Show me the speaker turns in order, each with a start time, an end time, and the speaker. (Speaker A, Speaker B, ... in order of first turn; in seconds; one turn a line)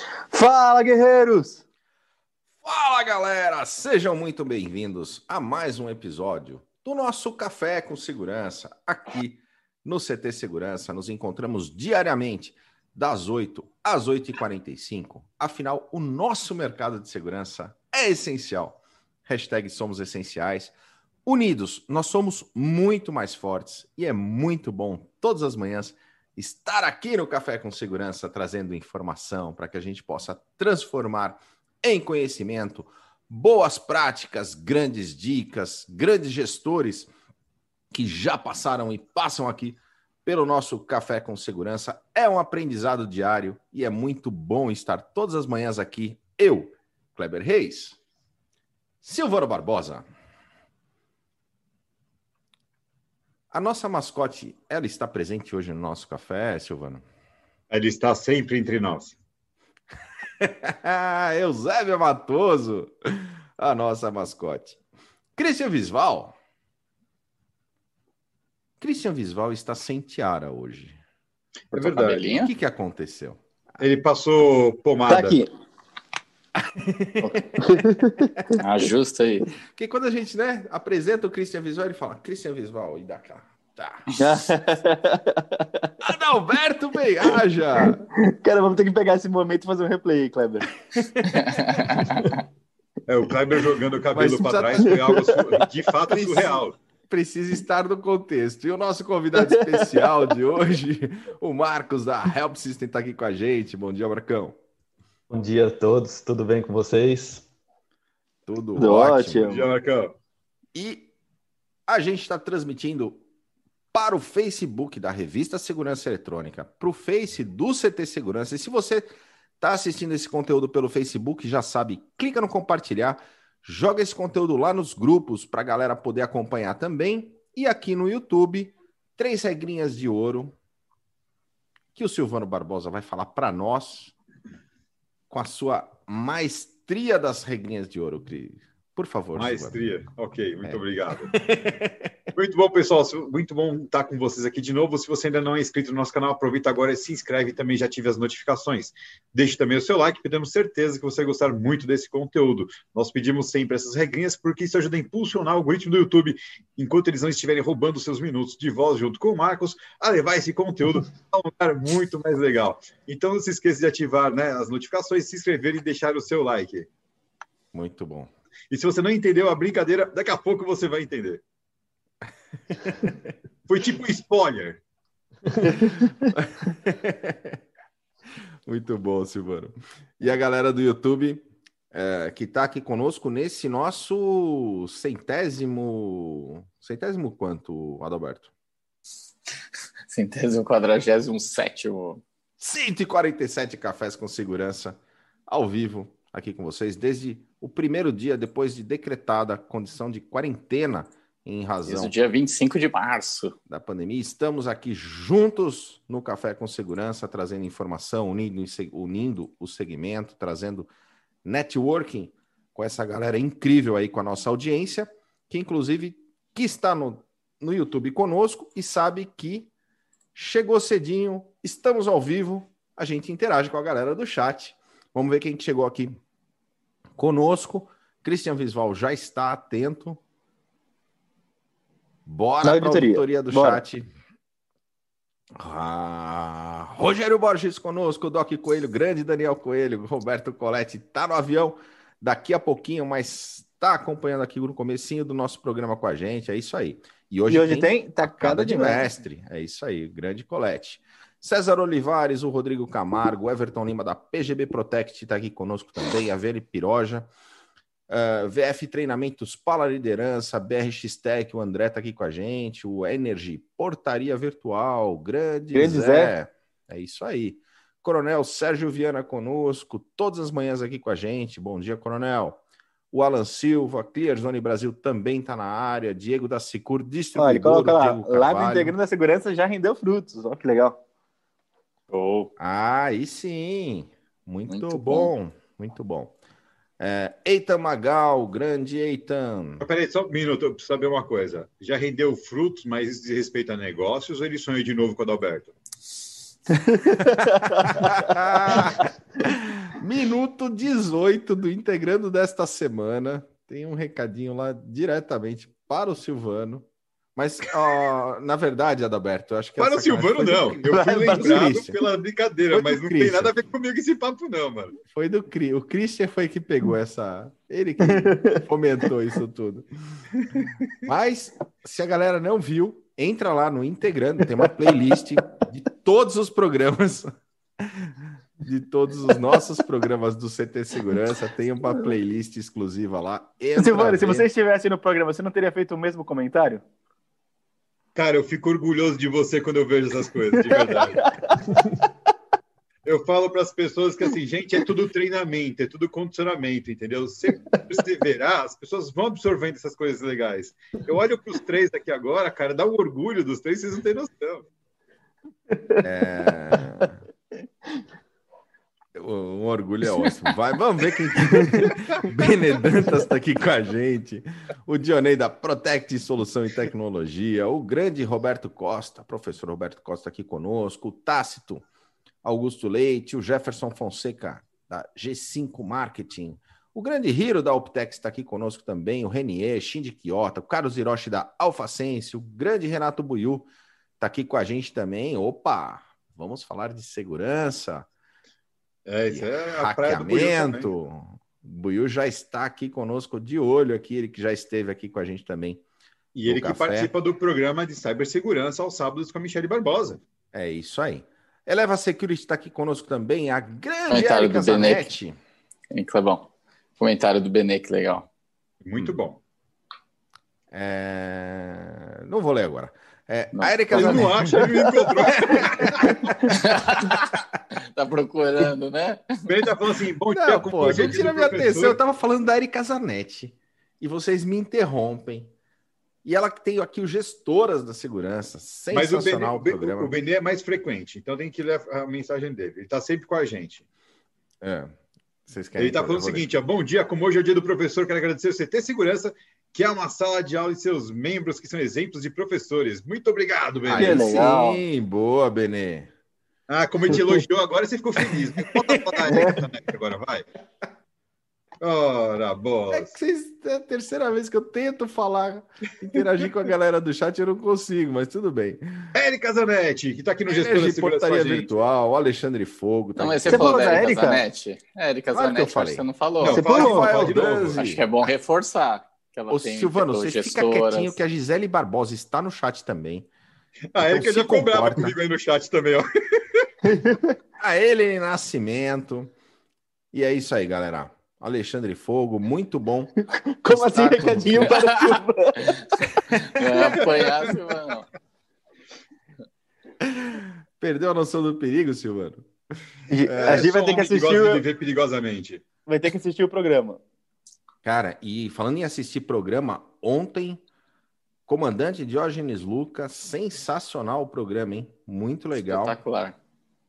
Speaker A: 0.3-1.6
Speaker B: 2.6-20.7
Speaker B: 21.2-37.1
Speaker B: 37.9-48.0
Speaker B: 49.0-50.0
Speaker B: 53.5-57.0
Speaker C: 57.7-59.2
Speaker B: 60.4-64.8
Speaker B: 65.4-66.3
Speaker B: 68.8-71.0
Speaker D: 71.7-72.5
Speaker C: 71.7-72.3
Speaker B: 72.3-73.4
Speaker C: 73.8-75.4
Speaker A: 75.1-75.5
Speaker B: 76.5-78.6
Speaker A: 77.6-78.3
Speaker D: 78.6-79.5
Speaker B: 79.7-84.1
Speaker A: 84.2-85.9
Speaker B: 86.0-88.0
Speaker A: 87.3-92.3
Speaker D: 91.3-92.3
Speaker C: 93.1-96.8
Speaker B: 94.1-95.1
Speaker A: 94.8-95.5
Speaker B: 96.1-104.6
Speaker E: 105.3-107.5
Speaker B: 108.5-109.6
Speaker A: 108.8-109.7
Speaker C: 109.5-110.1
Speaker B: 110.7-111.1
Speaker B: 111.9-113.2
Speaker B: 113.9-119.1
Speaker B: 119.6-130.6
Speaker B: 131.9-134.1
Speaker B: 135.3-139.8
Speaker C: 139.3-141.3
Speaker B: 140.6-142.1
Speaker C: 142.3-166.9
Speaker B: 167.7-168.3
Speaker C: 168.7-171.4
Speaker B: 172.7-173.3
Speaker C: 173.7-174.8
Speaker B: 175.9-177.6
Speaker B: 178.6-188.5
Speaker D: 190.1-192.2
Speaker B: 192.6-202.1
Speaker D: 201.9-203.5
Speaker B: 203.7-210.9
Speaker B: 211.4-219.7
Speaker B: 220.3-226.2
Speaker B: 227.2-230.2
Speaker B: 232.2-234.1
Speaker A: 232.6-233.8
Speaker B: 235.6-257.3
Speaker A: 247.5-249.1
Speaker B: 258.1-278.9
Speaker A: 265.7-266.3
Speaker A: 277.3-281.0
Speaker D: 282.1-282.5
Speaker B: 282.6-286.3
Speaker D: 284.7-285.3
Speaker B: 287.0-289.8
Speaker C: 289.8-295.7
Speaker B: 297.4-312.0
Speaker C: 309.8-314.9
Speaker A: 310.9-311.8
Speaker B: 312.7-313.5
Speaker B: 315.1-320.2
Speaker A: 318.1-318.5
Speaker B: 321.0-334.5
Speaker A: 333.8-336.8
Speaker C: 338.1-341.2
Speaker C: 343.0-354.6
Speaker B: 356.0-357.2
Speaker B: 359.1-371.8
Speaker B: 372.4-383.7
Speaker B: 384.2-388.1
Speaker C: 389.1-390.9
Speaker B: 389.3-395.8
Speaker C: 396.3-400.2
Speaker B: 396.4-397.1
Speaker B: 400.5-405.4
Speaker D: 404.1-405.1
Speaker D: 405.9-408.3
Speaker C: 408.8-409.4
Speaker B: 410.7-414.7
Speaker D: 413.5-414.6
Speaker C: 413.9-416.1
Speaker A: 414.6-414.9
Speaker B: 415.3-416.5
Speaker D: 416.5-417.4
Speaker D: 417.9-419.5
Speaker C: 419.5-422.0
Speaker B: 420.3-425.5
Speaker B: 426.2-430.1
Speaker C: 428.9-433.9
Speaker B: 434.6-434.9
Speaker B: 435.4-436.5
Speaker C: 435.8-444.3
Speaker B: 443.8-446.1
Speaker A: 443.9-444.8
Speaker C: 446.7-450.4
Speaker A: 449.2-449.6
Speaker C: 451.8-453.1
Speaker B: 452.9-459.1
Speaker C: 459.1-461.7
Speaker B: 460.5-464.0
Speaker D: 463.2-466.7
Speaker A: 463.5-464.4
Speaker B: 465.3-468.0
Speaker C: 466.4-467.8
Speaker A: 466.4-467.4
Speaker D: 467.7-471.2
Speaker B: 469.5-473.3
Speaker C: 473.9-476.6
Speaker B: 474.0-475.1
Speaker A: 476.8-477.4
Speaker B: 477.6-479.3
Speaker B: 480.1-483.1
Speaker A: 483.6-485.8
Speaker B: 483.7-484.9
Speaker D: 484.6-485.2
Speaker D: 486.3-488.1
Speaker C: 486.6-487.6
Speaker B: 490.0-493.7
Speaker A: 493.1-494.6
Speaker C: 493.3-495.6
Speaker A: 495.9-497.0
Speaker B: 497.8-500.6
Speaker B: 501.5-506.0
Speaker D: 505.7-506.4